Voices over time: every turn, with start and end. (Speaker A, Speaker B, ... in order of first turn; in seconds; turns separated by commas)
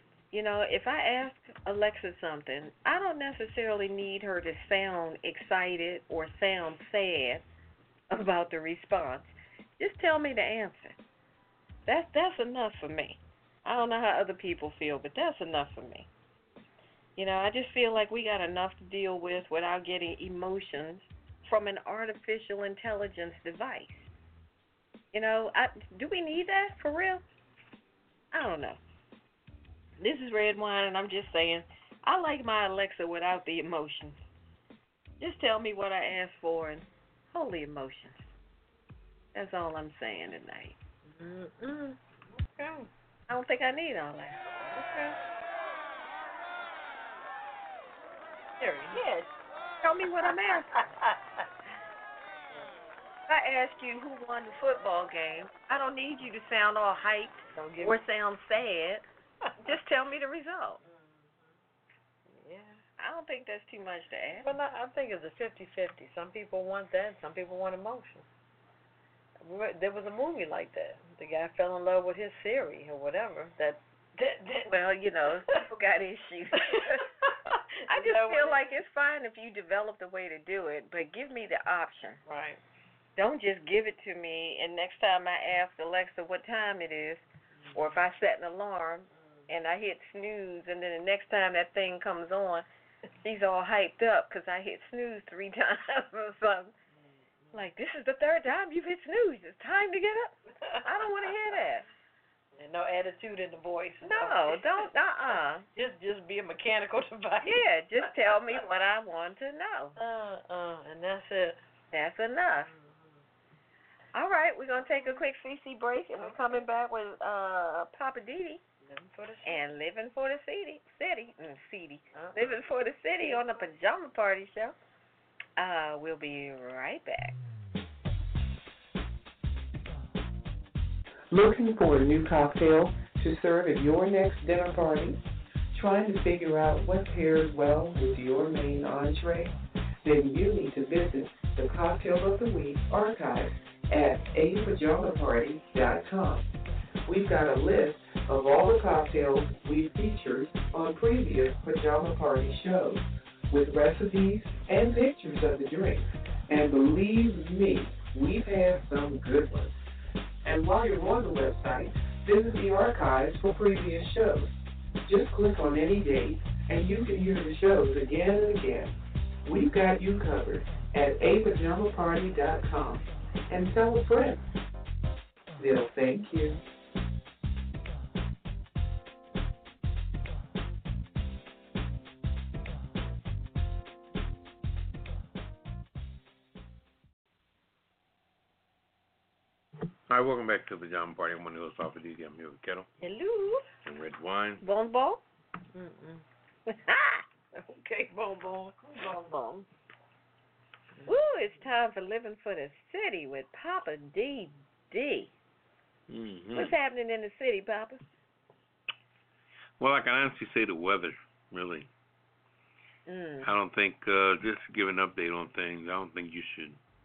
Speaker A: 0.3-7.5, Speaker A: 8.1-11.0, Speaker A: 11.8-16.1, Speaker A: 17.2-24.1, Speaker A: 25.1-27.2, Speaker A: 28.3-28.8, Speaker A: 30.0-34.2, Speaker A: 35.2-38.3, Speaker A: 39.3-40.8, Speaker B: 41.0-42.9, Speaker A: 43.3-45.1, Speaker B: 48.6-49.0, Speaker A: 48.9-49.2, Speaker A: 49.8-50.8, Speaker B: 50.8-51.4, Speaker A: 53.3-59.0, Speaker B: 57.5-58.0, Speaker A: 59.6-60.8, Speaker B: 60.8-61.5, Speaker B: 62.3-62.8, Speaker A: 63.0-64.5, Speaker B: 64.4-68.2, Speaker B: 69.4-74.7, Speaker A: 74.7-77.0, Speaker B: 76.6-78.8, Speaker A: 77.9-82.2, Speaker B: 82.2-82.6, Speaker A: 83.2-92.6, Speaker A: 93.2-96.7, Speaker B: 97.0-97.5, Speaker A: 97.5-101.9, Speaker B: 100.6-101.3, Speaker B: 102.5-104.9, Speaker A: 104.0-105.7, Speaker B: 105.7-108.1, Speaker A: 107.4-110.0, Speaker B: 110.0-111.6, Speaker A: 111.9-112.7, Speaker B: 112.6-113.2, Speaker A: 114.1-118.6, Speaker B: 118.8-119.6, Speaker A: 119.4-124.8, Speaker B: 122.1-122.6, Speaker B: 123.2-123.5, Speaker A: 125.6-127.4, Speaker C: 131.3-135.2, Speaker C: 135.7-146.5, Speaker C: 147.1-159.8, Speaker C: 160.4-168.9, Speaker C: 169.4-174.4, Speaker C: 175.6-176.6, Speaker D: 190.1-192.9, Speaker B: 193.0-193.6, Speaker D: 193.8-194.6, Speaker A: 194.6-195.2, Speaker B: 195.7-196.2, Speaker A: 196.7-197.2, Speaker B: 197.5-198.9, Speaker A: 198.9-199.7, Speaker A: 201.1-205.3, Speaker D: 206.1-206.8, Speaker A: 206.5-208.0, Speaker D: 209.8-211.9, Speaker A: 213.1-213.5, Speaker D: 213.4-216.8